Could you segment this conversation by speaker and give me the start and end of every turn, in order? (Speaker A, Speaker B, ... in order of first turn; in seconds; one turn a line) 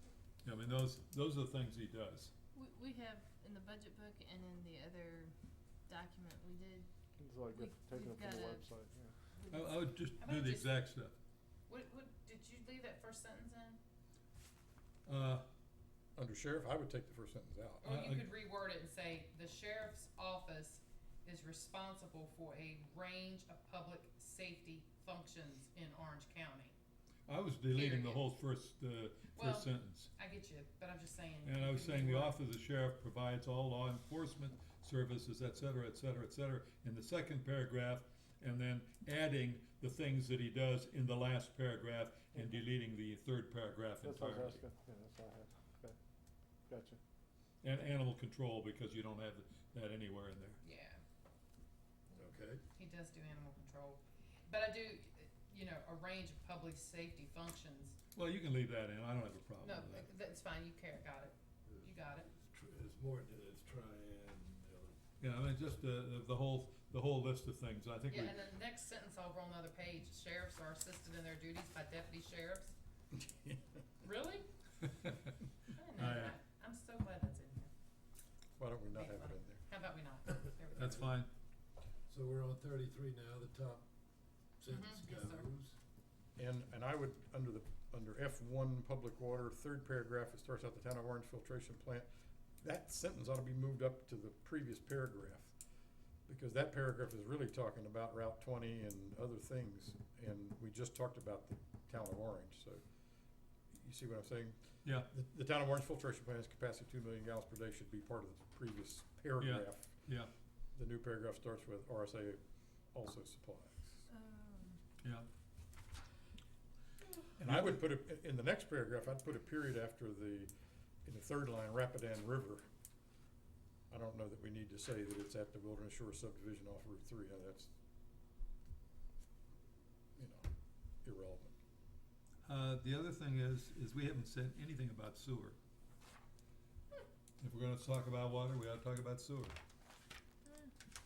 Speaker A: 0.4-2.3
Speaker B: 2.5-5.3
Speaker B: 5.9-6.9
Speaker C: 7.2-9.2
Speaker B: 7.5-8.7
Speaker B: 9.4-9.9
Speaker A: 9.5-11.2
Speaker D: 10.2-10.7
Speaker D: 11.7-13.8
Speaker A: 15.1-15.4
Speaker E: 16.2-17.9
Speaker D: 17.8-26.8
Speaker A: 17.9-18.3
Speaker A: 27.3-30.1
Speaker D: 27.7-28.2
Speaker D: 29.3-32.4
Speaker A: 31.4-44.6
Speaker C: 44.0-46.0
Speaker C: 46.7-47.0
Speaker A: 47.6-50.6
Speaker D: 50.6-51.0
Speaker F: 52.1-52.6
Speaker D: 52.8-58.0
Speaker A: 58.1-60.1
Speaker D: 59.6-62.3
Speaker F: 61.7-65.0
Speaker A: 65.2-68.4
Speaker D: 68.1-72.7
Speaker E: 73.2-73.6
Speaker D: 74.0-74.5
Speaker D: 75.7-77.7
Speaker A: 76.0-76.3
Speaker E: 78.6-79.6
Speaker D: 78.9-81.1
Speaker A: 80.8-81.3
Speaker F: 82.1-83.8
Speaker F: 84.6-85.8
Speaker D: 84.7-85.5
Speaker E: 86.4-92.1
Speaker E: 92.6-95.5
Speaker E: 96.3-102.8
Speaker E: 103.7-110.1
Speaker A: 104.8-105.1
Speaker A: 109.4-110.3
Speaker E: 110.8-112.4
Speaker E: 112.9-113.9
Speaker B: 114.1-114.8
Speaker A: 115.0-115.3
Speaker E: 117.4-120.5
Speaker A: 117.5-117.8
Speaker E: 121.0-122.7
Speaker E: 123.9-127.7
Speaker E: 130.2-130.5
Speaker E: 131.0-131.6
Speaker A: 132.4-135.6
Speaker A: 137.4-139.6
Speaker B: 140.5-140.7